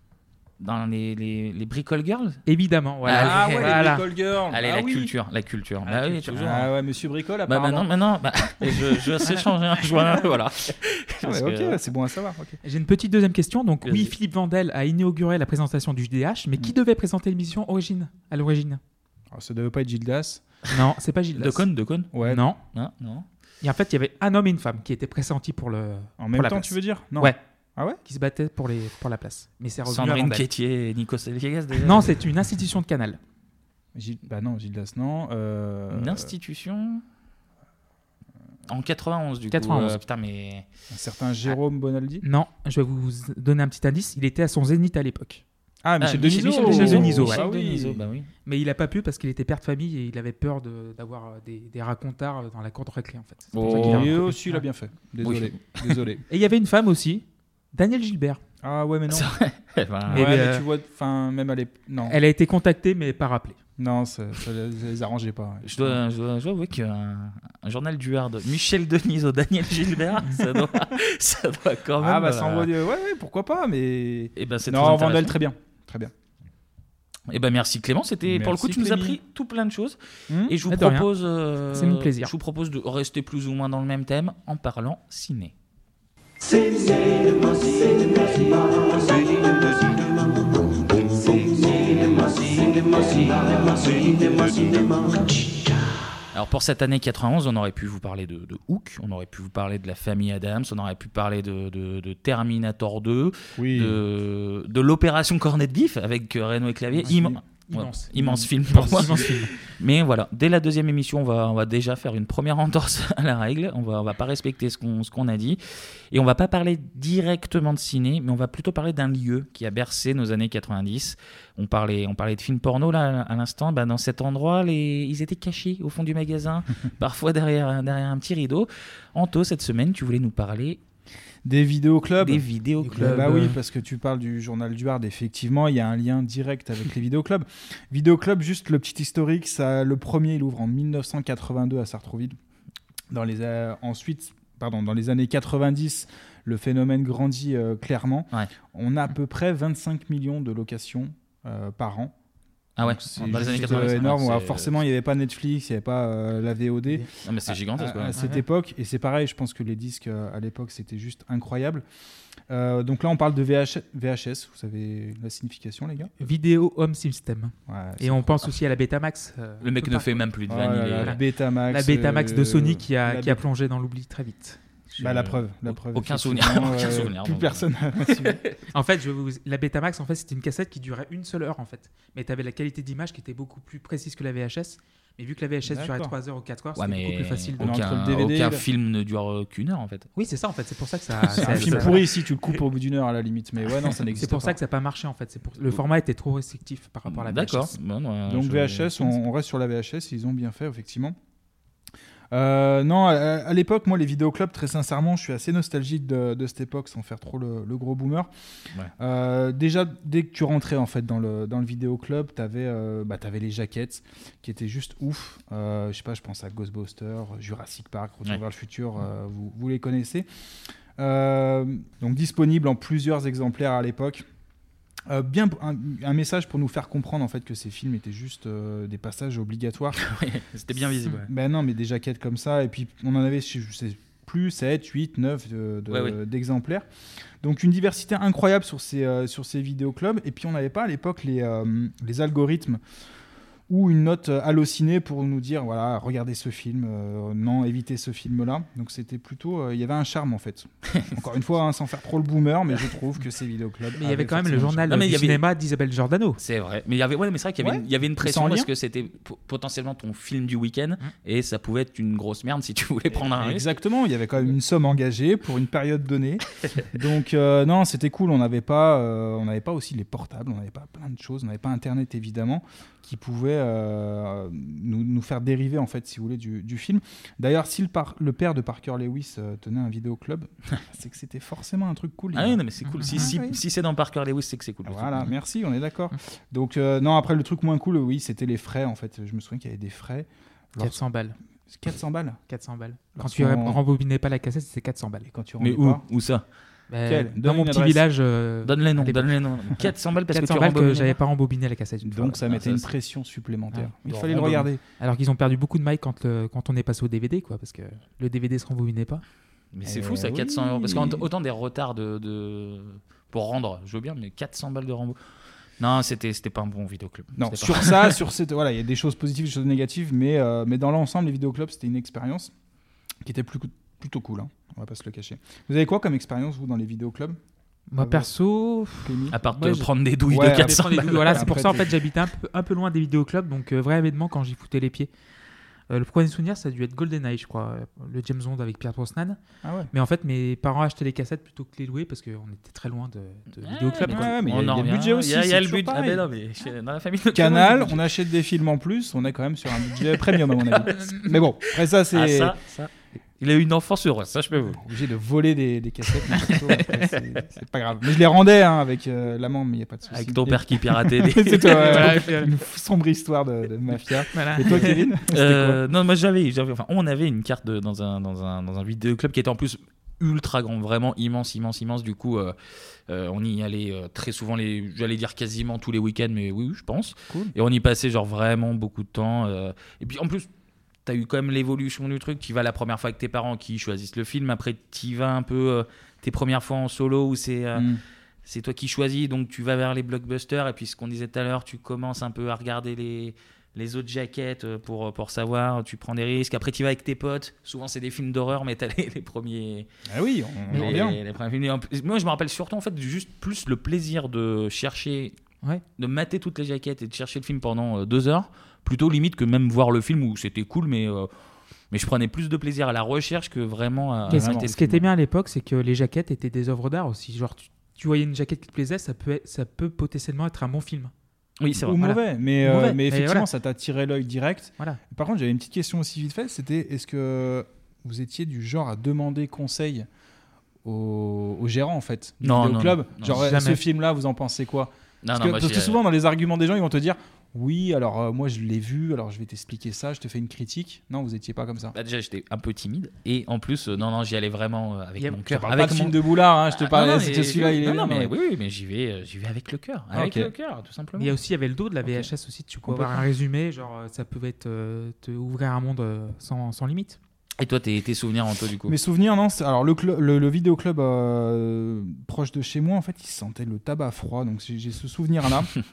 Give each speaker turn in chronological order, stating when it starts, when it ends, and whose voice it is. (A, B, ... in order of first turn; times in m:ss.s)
0:00.6-0:02.4 A
0:02.5-0:04.1 B
0:03.0-0:03.9 A
0:03.1-0:05.1 C
0:04.5-0:06.7 A
0:05.9-0:06.4 B
0:06.4-0:07.9 C
0:07.5-0:11.8 A
0:09.3-0:10.2 B
0:11.2-0:12.6 C
0:12.6-0:18.8 B
0:13.8-0:14.1 A
0:19.3-0:20.5 C
0:20.7-0:21.6 B
0:21.4-0:22.1 A
0:22.1-0:22.4 C
0:22.2-0:22.6 B
0:22.7-0:23.3 A
0:23.6-0:27.4 B
0:26.2-0:28.0 C
0:28.0-0:30.4 B
0:29.9-0:32.1 A
0:31.8-0:33.2 B
0:34.0-0:36.3 C
0:35.9-0:37.0 A
0:38.7-0:40.7 A
0:39.5-0:40.0 B
0:40.9-0:42.2 C
0:42.2-0:45.4 B
0:45.8-0:48.1 C
0:46.0-0:48.3 A
0:46.6-0:47.4 B
0:48.4-0:54.6 B
0:53.5-0:54.2 A
0:53.7-0:56.2 C
0:55.2-0:56.0 A
0:56.3-0:58.4 B
0:58.6-0:59.3 C
0:59.1-1:00.3 A
1:00.1-1:02.2 C
1:00.1-1:00.6 B
1:02.0-1:03.6 B
1:03.8-1:06.0 C
1:05.6-1:12.7 A
1:12.0-1:16.1 C
1:14.4-1:15.4 A
1:17.3-1:25.5 A
1:18.2-1:19.2 C
1:20.3-1:20.6 C
1:20.7-1:21.1 B
1:21.7-1:22.3 B
1:36.3-1:55.6 A
1:43.6-1:44.0 C
1:47.0-1:47.4 C
1:47.6-1:49.5 B
1:48.2-1:49.4 C
1:56.1-2:10.8 A
2:11.4-2:22.4 C
2:12.2-2:13.3 A
2:12.8-2:13.6 B
2:23.1-2:32.2 C
2:32.8-2:34.7 A
2:32.8-2:41.8 C
2:33.2-2:33.9 B
2:37.2-2:38.2 A
2:38.2-2:38.4 B
2:42.5-2:46.1 C
2:46.2-2:50.2 B
2:47.7-2:48.5 C
2:49.6-2:51.2 A
2:50.5-2:53.4 C
2:51.0-2:54.6 B
2:55.0-2:58.5 A
2:55.0-2:58.4 C
2:58.7-3:07.8 B
3:05.7-3:06.1 C
3:06.8-3:10.1 A
3:07.6-3:08.6 C
3:10.2-3:12.0 B
3:11.3-3:14.6 C
3:11.4-3:12.0 A
3:14.2-3:17.8 B
3:17.1-3:19.2 A
3:18.3-3:21.2 C
3:22.3-3:28.3 C
3:29.0-3:40.3 C
3:41.0-3:44.2 C
3:45.1-3:50.0 C
3:50.0-3:51.3 A
3:51.2-3:56.9 C
3:55.9-3:56.2 A
3:57.4-4:02.8 C
4:03.7-4:15.1 C
4:10.9-4:11.2 A
4:14.0-4:16.4 B
4:14.9-4:15.4 A
4:16.4-4:23.7 A
4:17.6-4:18.7 C
4:23.3-4:43.6 C
4:42.3-4:45.3 A
4:42.9-4:43.3 B
4:44.9-4:51.0 C
4:50.8-4:51.4 B
4:51.7-4:52.4 C
4:52.5-4:55.3 B
4:53.2-4:53.8 C
4:55.3-4:56.0 C
4:55.6-4:56.4 A
4:56.9-5:02.4 B
4:57.0-4:58.0 C
4:58.6-5:01.2 A
5:02.0-5:04.8 C
5:02.5-5:02.9 A
5:04.0-5:04.7 A
5:05.0-5:09.2 B
5:09.7-5:15.2 A
5:09.8-5:11.3 C
5:15.8-5:18.2 A
5:17.4-5:22.5 C
5:23.2-5:27.4 C
5:27.9-5:35.1 B
5:28.0-5:28.3 C
5:29.0-5:29.4 C
5:29.3-5:31.8 A
5:30.3-5:31.9 C
5:35.9-5:39.4 B
5:39.6-5:39.9 C
5:39.9-5:44.4 B
5:43.6-5:48.0 A
5:44.1-5:46.3 C
5:47.3-5:52.6 C
5:52.1-5:54.8 A
5:54.7-6:05.8 C
6:00.1-6:02.2 A
6:01.6-6:02.5 B
6:04.3-6:05.1 B
6:04.8-6:12.6 A
6:13.1-6:20.5 A
6:21.1-6:27.9 A
6:27.8-6:28.0 C
6:28.4-6:39.9 A
6:40.1-6:41.2 C
6:40.7-6:45.4 A
6:46.0-6:51.3 A
6:51.9-6:55.0 A
6:54.3-6:55.0 C
6:54.3-7:01.1 B
7:01.6-7:02.0 A
7:01.8-7:10.1 C
7:02.0-7:03.5 B
7:10.8-7:22.0 C
7:12.4-7:13.4 A
7:13.3-7:13.8 B
7:15.2-7:16.0 A
7:21.9-7:26.2 A
7:25.2-7:25.6 B
7:25.6-7:28.3 C
7:26.7-7:31.3 A
7:30.1-7:30.5 C
7:31.2-7:37.2 B
7:32.0-7:32.3 C
7:32.9-7:33.3 C
7:37.6-7:39.0 A
7:38.9-7:45.7 C